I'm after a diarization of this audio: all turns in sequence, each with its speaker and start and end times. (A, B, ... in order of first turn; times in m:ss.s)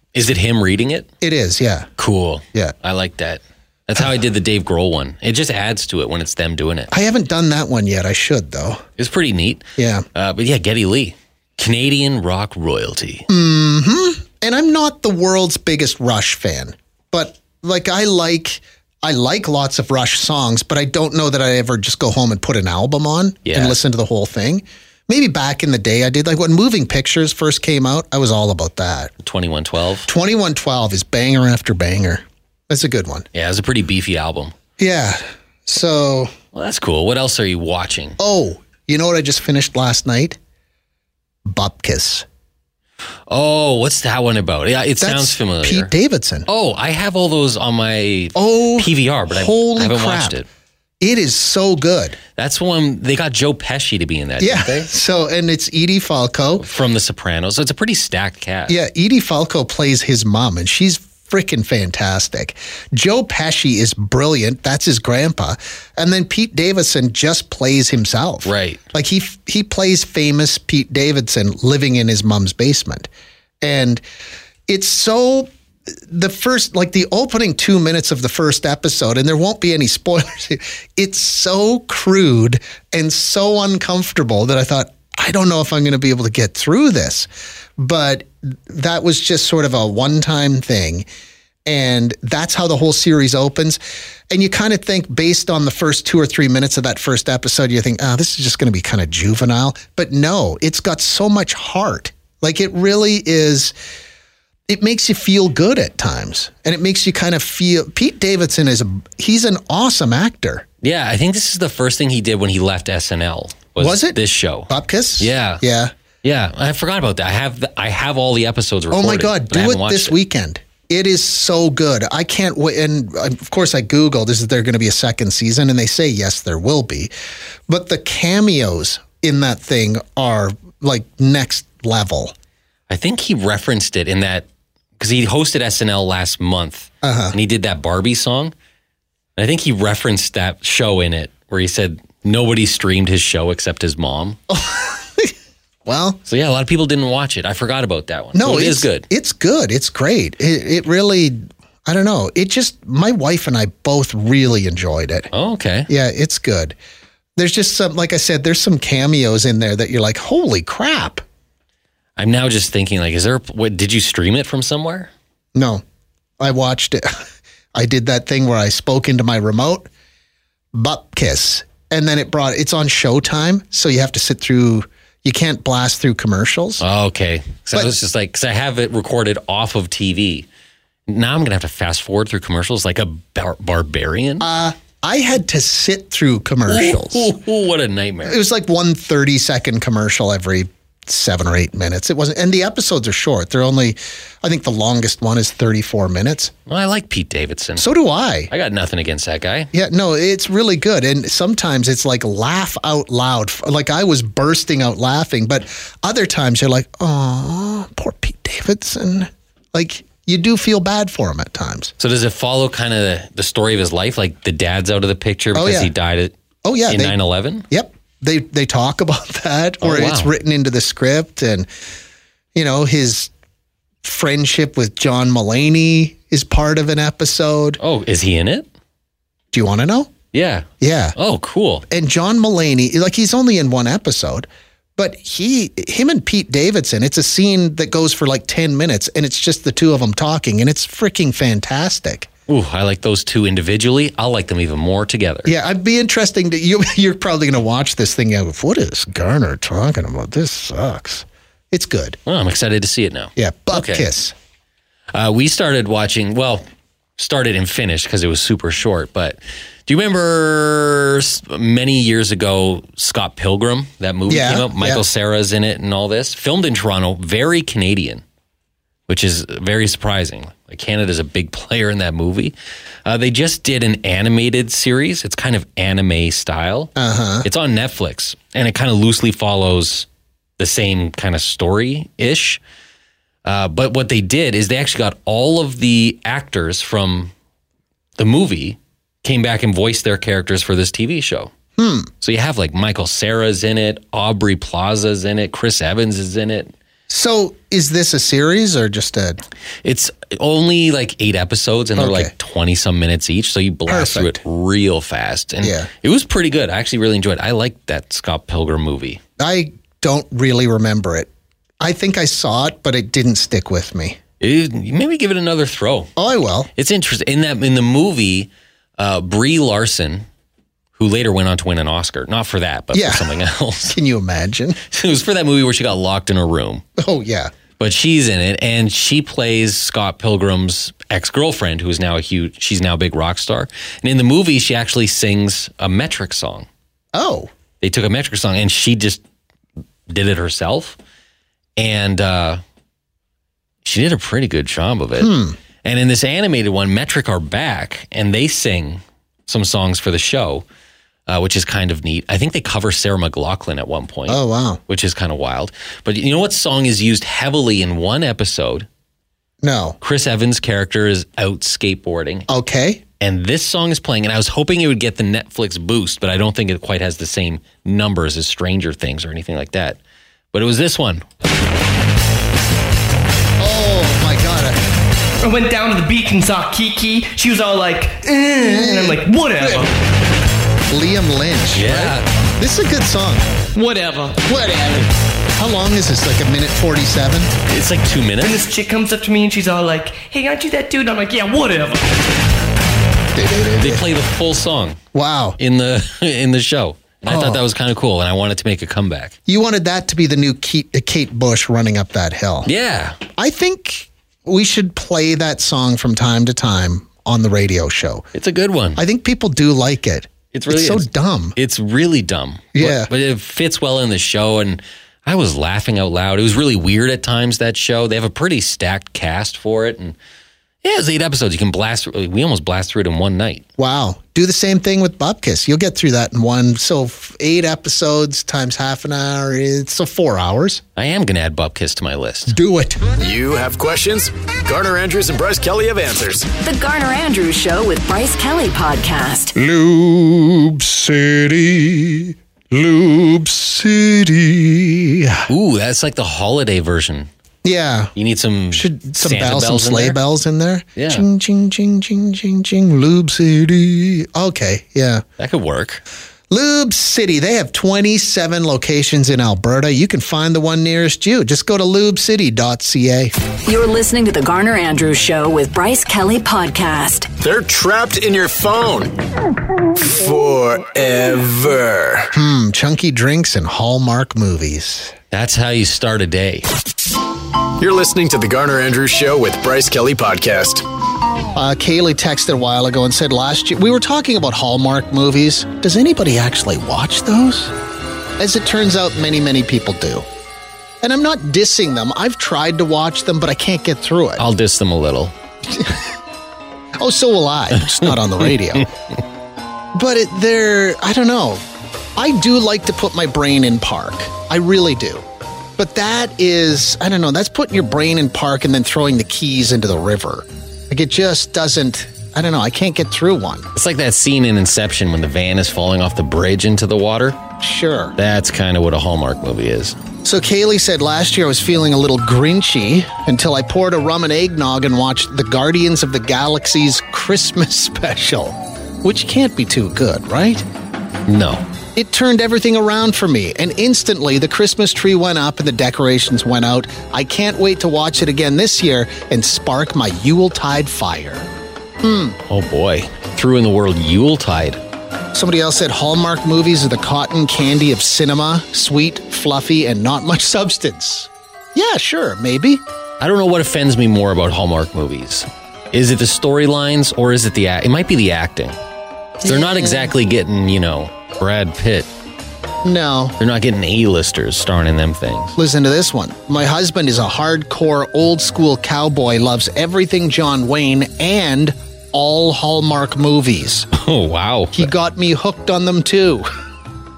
0:00.1-0:01.1 A
0:01.2-0:01.9 B
0:02.0-0:06.9 A
0:06.9-0:08.8 B
0:09.0-0:13.3 A
0:09.8-0:10.0 B
0:13.3-0:29.1 B
0:23.4-0:23.8 A
0:29.2-0:30.1 A
0:30.0-0:33.3 B
0:33.3-0:34.5 A
0:34.8-0:36.3 B
0:36.5-0:38.2 A
0:38.2-0:40.4 B
0:41.4-0:42.2 B
0:43.3-0:45.9 A
0:45.0-0:46.5 B
0:46.5-0:50.5 A
0:48.3-0:50.4 B
0:51.0-0:52.2 B
0:52.4-0:54.9 A
0:54.4-0:56.6 B
0:56.6-0:58.8 A
0:58.7-1:13.1 B
1:08.4-1:08.8 A
1:13.6-1:14.0 B
1:14.7-1:15.5 B
1:16.1-1:31.1 B
1:31.7-1:43.7 B
1:44.7-1:50.6 B
1:50.8-1:55.6 A
1:53.8-1:55.9 B
1:56.2-2:00.2 A
1:58.9-2:07.1 B
2:07.7-2:12.3 B
2:12.9-2:14.5 A
2:15.0-2:18.5 A
2:17.0-2:17.4 B
2:19.4-2:24.4 A
2:24.5-2:25.3 B
2:25.8-2:26.2 B
2:26.2-2:29.1 A
2:28.3-2:35.3 B
2:35.3-2:35.9 A
2:35.9-2:36.8 B
2:37.4-2:41.2 B
2:42.2-2:45.1 A
2:45.5-2:45.8 B
2:46.4-2:47.2 B
2:47.7-2:49.9 B
2:50.7-2:56.8 B
2:56.8-3:00.5 A
3:01.1-3:04.5 A
3:04.4-3:07.3 B
3:06.7-3:08.4 A
3:08.2-3:16.5 B
3:16.7-3:17.9 A
3:17.8-3:18.5 B
3:18.5-3:19.7 A
3:19.7-3:31.9 B
3:32.0-3:36.4 A
3:35.5-3:35.9 B
3:36.6-3:37.2 B
3:36.9-3:37.6 A
3:37.7-3:41.7 B
3:39.8-3:40.3 A
3:42.5-3:43.3 B
3:44.0-3:47.8 B
3:47.8-3:48.7 A
3:49.5-3:50.1 B
3:50.3-3:51.8 A
3:50.8-3:51.2 B
3:51.9-4:02.3 B
4:02.5-4:05.5 A
4:05.4-4:12.2 B
4:12.2-4:14.1 A
4:13.4-4:14.3 B
4:15.1-4:16.6 A
4:17.2-4:28.2 A
4:24.3-4:25.0 B
4:29.1-4:36.9 A
4:37.0-4:37.5 B
4:37.4-4:40.1 A
4:40.6-4:42.6 A
4:43.4-4:47.3 A
4:48.2-4:51.5 A
4:51.8-4:52.1 B
4:52.2-4:56.7 A
4:57.1-4:59.4 B
4:59.8-5:09.2 A
5:02.0-5:02.3 B
5:03.9-5:04.4 B
5:05.6-5:05.9 B
5:09.4-5:11.3 B
5:11.8-5:14.2 B
5:14.4-5:16.1 A
5:16.2-5:16.7 B
5:16.8-5:20.2 A
5:21.0-5:24.0 A
5:22.9-5:24.8 B
5:24.9-5:26.8 A
5:27.0-5:27.5 B
5:27.8-5:36.7 A
5:37.1-5:37.5 B
5:37.8-5:39.2 A
5:40.1-5:41.0 A
5:41.8-5:42.6 A
5:43.8-5:50.6 A
5:45.2-5:45.6 B
5:51.3-5:58.9 A
5:54.3-5:54.8 B
5:59.6-6:00.0 B
6:00.0-6:02.5 A
6:02.5-6:03.0 B
6:03.2-6:10.0 A
6:10.5-6:11.2 A
6:13.6-6:14.8 B
6:15.4-6:19.9 C
6:18.6-6:19.9 B
6:20.9-6:23.5 B
6:21.7-6:22.3 A
6:23.7-6:24.4 C
6:24.4-6:27.5 B
6:27.7-6:28.6 A
6:28.4-6:32.1 C
6:33.3-6:34.1 B
6:33.8-6:35.0 A
6:35.1-6:35.6 B
6:35.6-6:39.3 A
6:37.2-6:37.6 B
6:39.5-6:42.7 B
6:42.6-6:43.2 A
6:43.4-6:48.2 B
6:48.3-6:49.0 A
6:49.0-6:51.6 B
6:50.5-7:00.2 A
6:52.8-6:53.1 B
7:00.8-7:03.6 A
7:03.8-7:10.8 B
7:11.0-7:12.6 A
7:12.5-7:13.0 B
7:13.2-7:16.5 D
7:16.6-7:19.5 E
7:19.6-7:25.5 B
7:25.5-7:27.3 A
7:27.6-7:28.1 B
7:28.1-7:30.2 A
7:28.7-7:35.2 B
7:31.0-7:31.2 A
7:35.4-7:36.0 A
7:36.5-7:43.3 B
7:43.6-7:47.3 E
7:47.4-7:49.1 D
7:50.0-7:52.3 D
7:52.3-7:55.1 B
7:55.3-7:56.7 A
7:57.8-8:00.8 D
8:01.5-8:07.7 B
8:08.4-8:10.3 B
8:11.0-8:14.4 B
8:14.4-8:15.3 A
8:15.7-8:16.0 B
8:17.0-8:18.9 B
8:19.9-8:21.6 B
8:22.2-8:25.2 B
8:25.8-8:33.7 B
8:33.8-8:37.4 A
8:37.6-8:38.2 B
8:38.2-8:40.0 A
8:40.2-8:50.6 B
8:51.3-8:51.6 A
8:51.9-9:01.5 B
9:02.0-9:02.4 B
9:02.5-9:04.8 A
9:05.3-9:12.8 B
9:13.2-9:18.8 A
9:19.4-9:20.1 B
9:19.4-9:22.1 A
9:22.8-9:23.4 B
9:23.4-9:25.6 A
9:25.6-9:33.9 B
9:33.9-9:34.9 A
9:34.7-9:36.5 B